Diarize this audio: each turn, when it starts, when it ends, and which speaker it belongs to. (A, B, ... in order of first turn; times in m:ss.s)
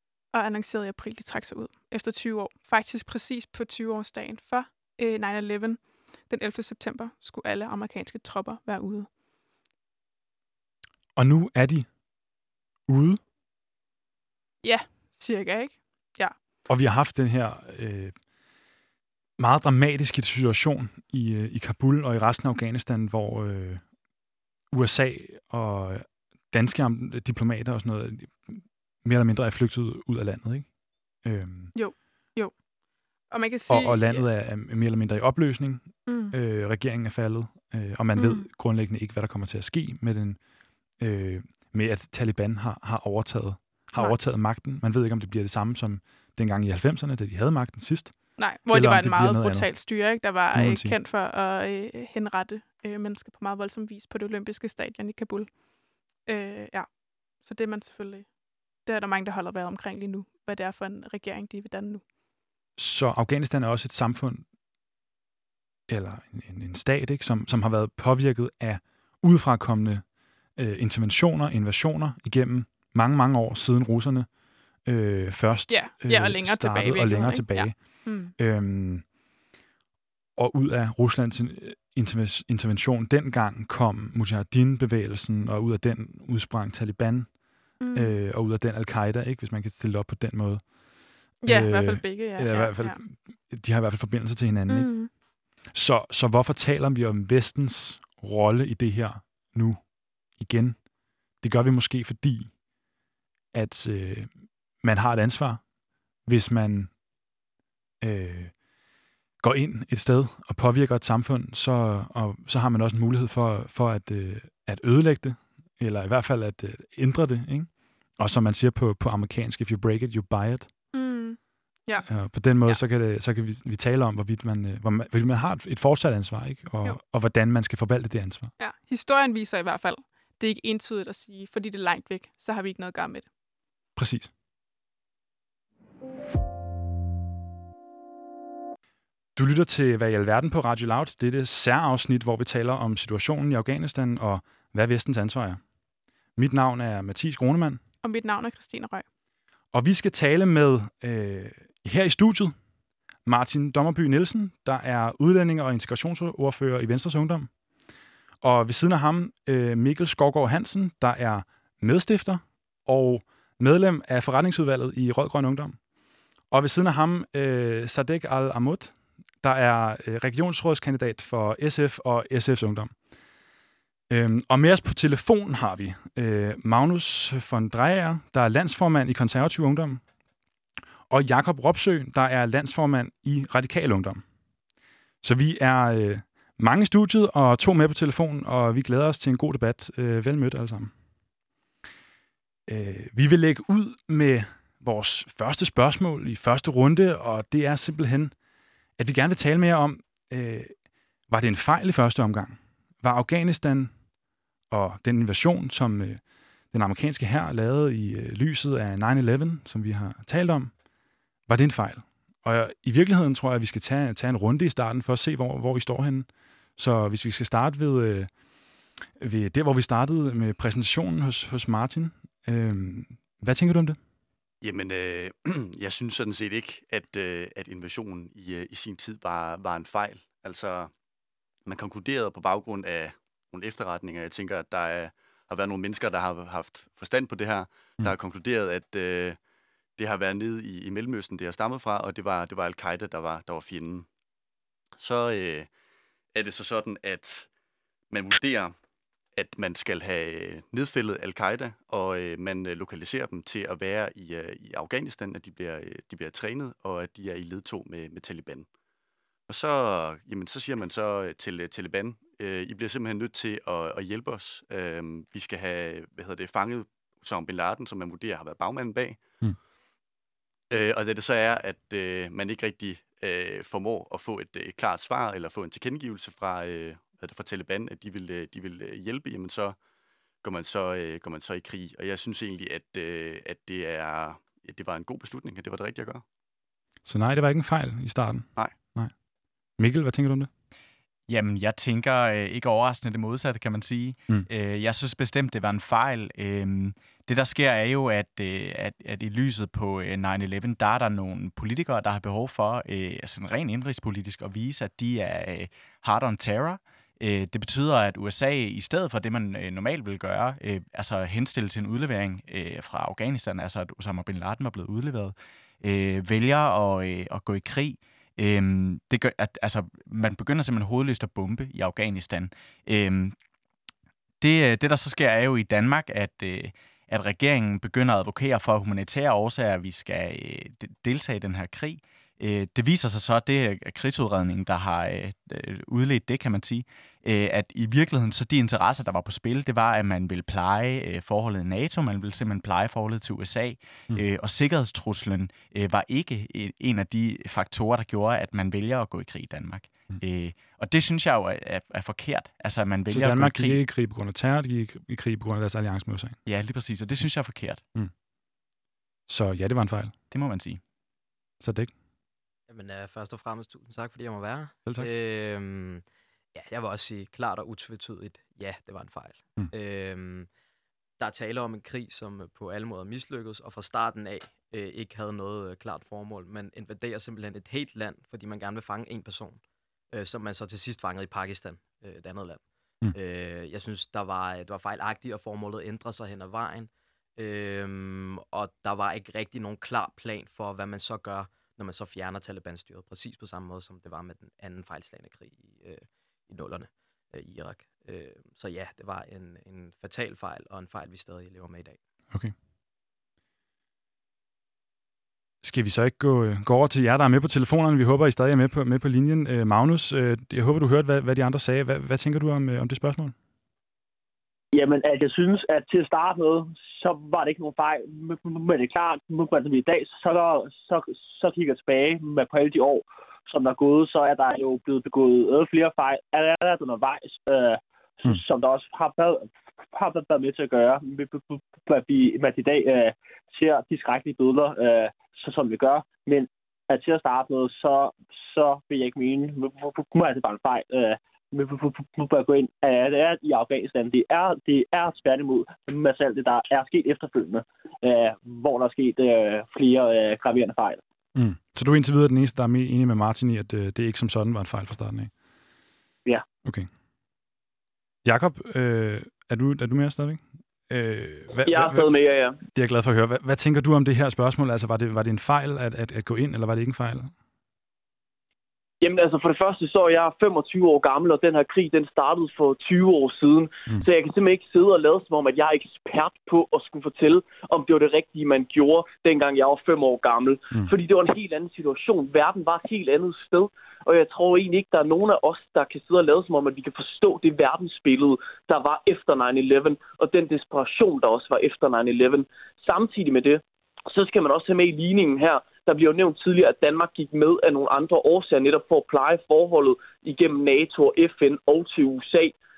0:00.3-0:09.1 A
0:11.2-0:11.9 B
0:12.9-0:13.2 B
0:14.6-0:16.3 A
0:16.7-0:18.1 B
0:19.4-0:23.8 B
0:24.7-0:30.7 B
0:31.2-0:31.7 B
0:31.7-0:32.5 A
0:33.3-0:34.2 A
0:33.7-0:40.4 B
0:36.0-0:36.3 A
0:38.2-0:38.5 A
0:41.0-0:49.7 B
0:48.4-0:55.5 A
0:50.5-0:50.9 B
0:56.2-0:56.9 A
0:57.4-0:58.3 A
0:58.8-1:02.0 A
1:02.8-1:04.4 B
1:05.9-1:14.3 B
1:14.8-1:19.0 B
1:15.7-1:18.3 A
1:20.4-1:30.7 B
1:27.8-1:28.2 A
1:31.4-1:33.0 A
1:31.4-1:35.0 B
1:34.7-1:35.1 A
1:35.7-1:40.8 B
1:41.4-1:42.5 B
1:43.5-1:45.6 B
1:46.2-1:46.9 B
1:48.0-1:48.5 B
1:49.4-2:00.7 B
2:00.9-2:02.1 A
2:02.0-2:08.5 B
2:08.6-2:13.2 A
2:14.0-2:14.3 B
2:19.4-2:25.6 B
2:26.4-2:27.8 B
2:28.0-2:29.0 A
2:29.7-2:32.5 B
2:33.2-2:37.5 B
2:38.4-2:45.8 B
2:46.5-2:52.9 B
2:54.1-3:00.0 B
3:01.1-3:04.2 B
3:05.2-3:10.9 B
3:12.7-3:18.3 B
3:19.0-3:20.7 B
3:21.3-3:23.9 B
3:24.7-3:26.2 B
3:26.7-3:30.7 B
3:31.5-3:38.3 B
3:39.2-3:44.0 B
3:44.6-3:50.9 C
3:51.6-3:59.4 C
4:00.0-4:04.1 C
4:05.0-4:05.7 C
4:06.3-4:07.5 C
4:08.1-4:08.7 C
4:09.4-4:18.7 C
4:19.5-4:29.4 C
4:30.7-4:39.8 C
4:40.4-4:46.2 C
4:47.0-4:49.1 B
4:49.8-4:50.5 B
4:51.3-5:23.3 D
5:24.4-5:53.8 D
5:53.1-5:56.4 B
5:56.4-5:57.8 D
5:59.3-6:00.1 B
6:00.3-6:00.8 D
6:01.6-6:01.9 B
6:02.7-6:10.5 E
6:11.2-6:19.6 E
6:20.1-6:42.0 E
6:45.6-6:53.3 B
6:54.7-7:31.0 F
7:31.3-7:35.3 B
7:38.2-7:42.1 B
7:41.6-7:42.6 G
7:42.7-7:47.3 B
7:49.0-8:22.6 G